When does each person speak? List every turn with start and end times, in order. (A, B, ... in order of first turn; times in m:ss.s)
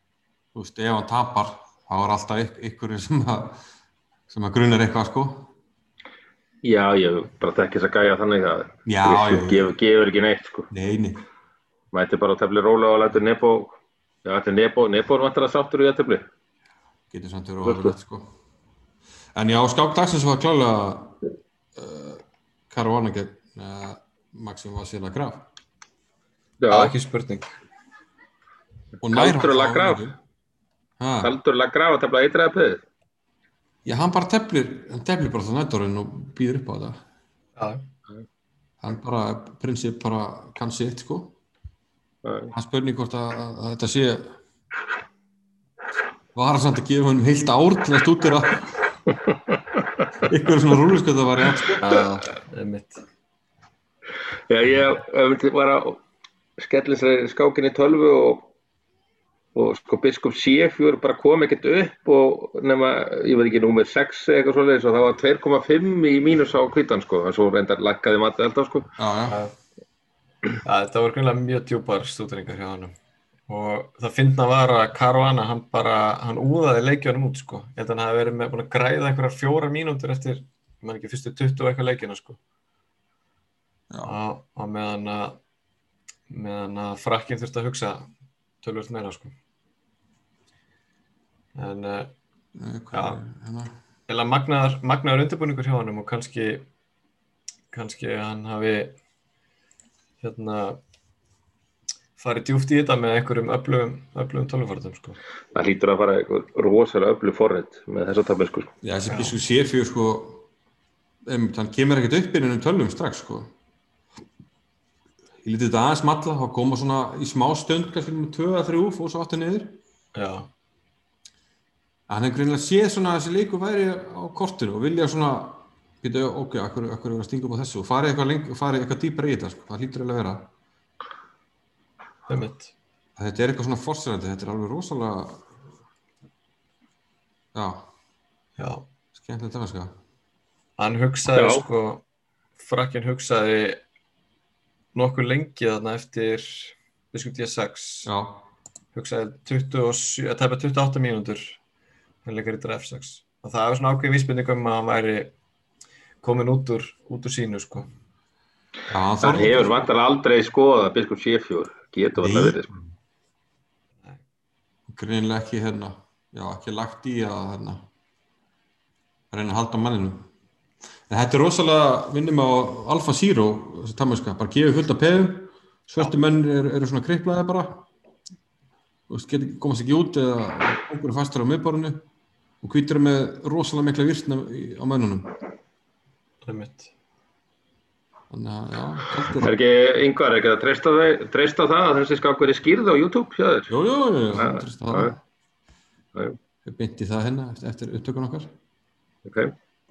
0:00.5-0:03.6 A
0:04.3-0:05.5 A
0:06.6-0:10.7 B
0:08.8-0:09.7 A
0:10.7-0:11.2 A
0:11.9-0:16.2 B
0:17.1-0:18.3 A
0:17.6-0:18.0 B
0:19.4-0:21.2 A
0:21.8-0:25.5 A
0:26.6-0:26.9 B
0:26.7-0:27.5 C
0:29.0-0:30.1 A
0:29.1-0:30.1 B
0:31.0-0:31.4 A
0:31.2-0:32.8 B
0:33.8-0:37.0 A
0:37.6-0:37.9 C
0:38.8-0:41.4 A
0:42.2-0:42.5 B
0:42.5-0:44.3 A
0:46.4-0:48.7 A
0:49.3-0:49.8 B
0:50.3-0:51.9 A
0:51.8-0:53.0 C
0:54.5-0:56.0 B
0:56.6-0:58.5 B
0:59.6-1:08.9 B
1:09.0-1:09.4 A
1:09.3-1:09.5 C
1:10.6-1:13.0 C
1:13.5-1:22.4 C
1:23.9-1:24.2 A
1:24.0-1:25.4 C
1:26.3-1:28.1 C
1:28.6-1:29.3 C
1:31.6-1:32.1 C
1:32.6-1:33.7 A
1:32.9-1:33.2 C
1:34.1-1:36.7 C
1:37.7-1:39.0 C
1:40.2-1:40.8 C
1:42.2-1:45.2 C
1:45.6-1:48.7 B
1:48.8-1:50.5 A
1:49.1-1:49.4 C
1:51.3-1:53.5 A
1:55.4-1:59.8 A
2:00.2-2:00.5 C
2:02.1-2:10.5 A
2:12.3-2:12.7 C
2:13.2-2:15.4 A
2:17.5-2:17.9 A
2:18.6-2:18.8 C
2:19.1-2:19.9 A
2:20.8-2:22.0 C
2:21.3-2:21.6 B
2:22.6-2:23.8 C
2:25.0-2:28.1 C
2:28.0-2:28.5 A
2:28.9-2:31.6 C
2:32.2-2:35.3 C
2:36.2-2:37.9 C
2:38.9-2:39.9 A
2:39.2-2:42.7 B
2:42.2-2:42.8 A
2:44.9-2:47.8 A
2:49.3-2:50.2 A
2:51.1-2:57.8 A
2:59.1-3:02.0 A
3:02.6-3:05.4 A
3:06.4-3:06.9 C
3:08.3-3:09.5 A
3:09.4-3:13.7 B
3:13.7-3:15.2 A
3:14.3-3:15.2 B
3:16.6-3:18.5 A
3:19.3-3:19.5 B